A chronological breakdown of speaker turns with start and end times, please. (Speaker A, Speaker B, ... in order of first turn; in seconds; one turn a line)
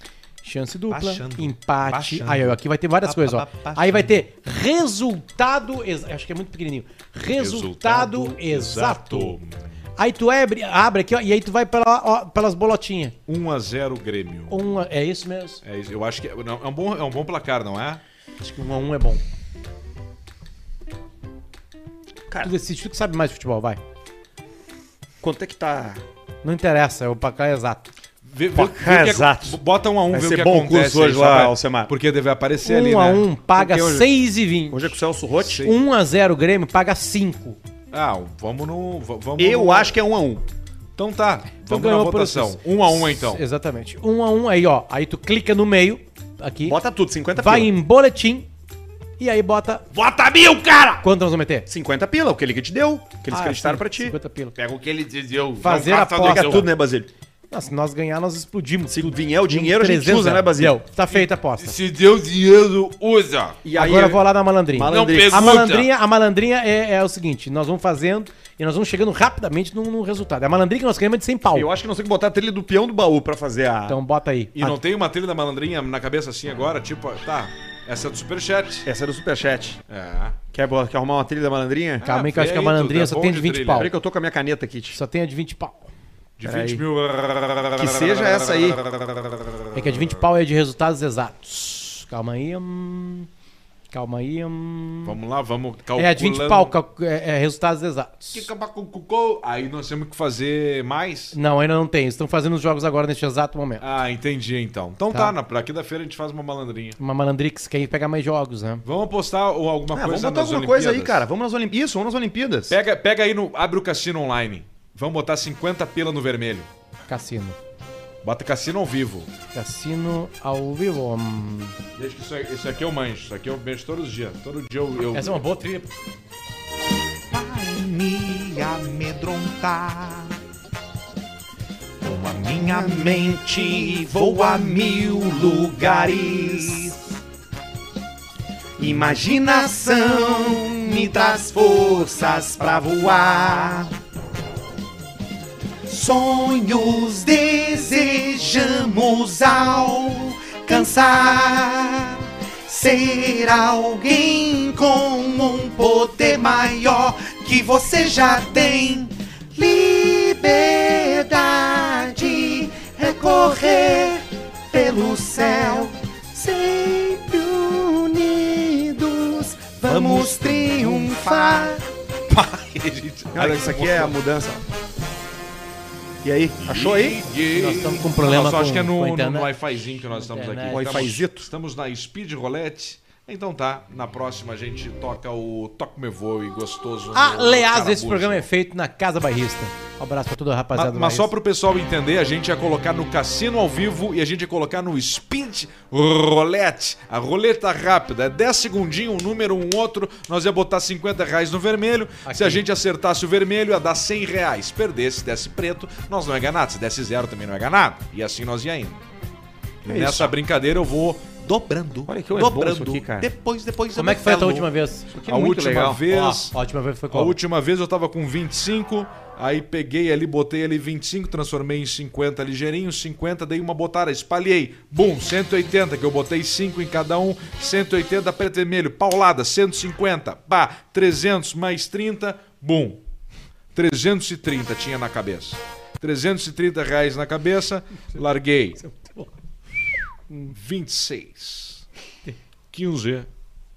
Speaker A: 0.4-9.4
Speaker B: 0.9-1.9
Speaker C: 1.9-2.5
Speaker C: 3.0-4.0
Speaker B: 3.4-3.8
Speaker C: 7.3-9.6
Speaker A: 10.0-13.2
Speaker C: 13.3-14.6
Speaker A: 14.5-15.6
Speaker C: 15.6-18.0
Speaker A: 18.4-19.2
Speaker A: 22.4-23.8
Speaker D: 25.2-26.0
Speaker A: 26.4-27.9
Speaker C: 28.2-33.3
Speaker D: 28.5-29.6
Speaker D: 30.1-31.9
Speaker A: 32.6-35.0
Speaker D: 33.5-34.1
Speaker D: 34.7-35.6
Speaker C: 35.4-35.8
Speaker A: 35.6-37.6
Speaker C: 37.9-40.0
Speaker D: 39.4-40.4
Speaker C: 41.0-43.4
Speaker A: 41.6-46.8
Speaker D: 46.6-47.7
Speaker A: 47.3-48.5
Speaker A: 49.2-49.8
Speaker B: 49.9-51.0
Speaker A: 51.0-51.7
Speaker D: 51.7-54.1
Speaker A: 53.3-54.5
Speaker B: 54.5-56.6
Speaker A: 55.6-56.7
Speaker C: 55.7-56.5
Speaker D: 56.1-57.1
Speaker A: 57.5-61.8
Speaker D: 58.9-60.8
Speaker B: 61.6-63.5
Speaker C: 61.6-63.5
Speaker D: 63.6-65.5
Speaker A: 63.7-71.7
Speaker C: 64.9-65.9
Speaker D: 71.5-74.0
Speaker A: 73.9-74.8
Speaker C: 74.5-78.8
Speaker D: 78.8-79.8
Speaker C: 79.9-80.4
Speaker D: 80.5-82.0
Speaker A: 82.0-83.9
Speaker C: 82.0-83.9
Speaker D: 83.7-85.0
Speaker A: 84.9-85.9
Speaker C: 86.4-88.9
Speaker D: 86.4-86.8
Speaker D: 87.7-88.8
Speaker A: 89.7-93.3
Speaker A: 93.9-95.2
Speaker C: 95.0-96.7
Speaker A: 96.0-98.5
Speaker C: 98.3-101.3
Speaker A: 101.3-103.8
Speaker C: 103.8-107.0
Speaker A: 107.0-108.8
Speaker C: 108.8-111.2
Speaker D: 109.9-112.8
Speaker C: 112.7-116.7
Speaker A: 117.1-117.6
Speaker C: 118.2-119.3
Speaker A: 119.5-121.8
Speaker C: 122.0-125.4
Speaker A: 125.1-125.9
Speaker B: 127.3-130.4
Speaker B: 132.0-137.0
Speaker B: 138.8-143.9
Speaker B: 145.9-171.8
Speaker D: 169.8-171.7
Speaker C: 172.3-174.2
Speaker D: 173.3-174.6
Speaker D: 176.2-177.2
Speaker C: 176.6-188.4
Speaker A: 177.5-179.5
Speaker A: 180.1-181.1
Speaker D: 180.7-181.5
Speaker A: 187.1-191.3
Speaker C: 190.7-209.0
Speaker A: 202.2-202.6
Speaker D: 209.8-210.3
Speaker C: 209.8-214.7
Speaker D: 212.1-213.3
Speaker A: 213.9-215.1
Speaker B: 213.9-214.6
Speaker D: 215.1-216.0
Speaker C: 215.2-216.5
Speaker A: 216.1-217.3
Speaker C: 217.1-233.0
Speaker C: 233.7-238.8
Speaker A: 238.8-239.3
Speaker C: 240.5-241.8
Speaker C: 242.7-243.3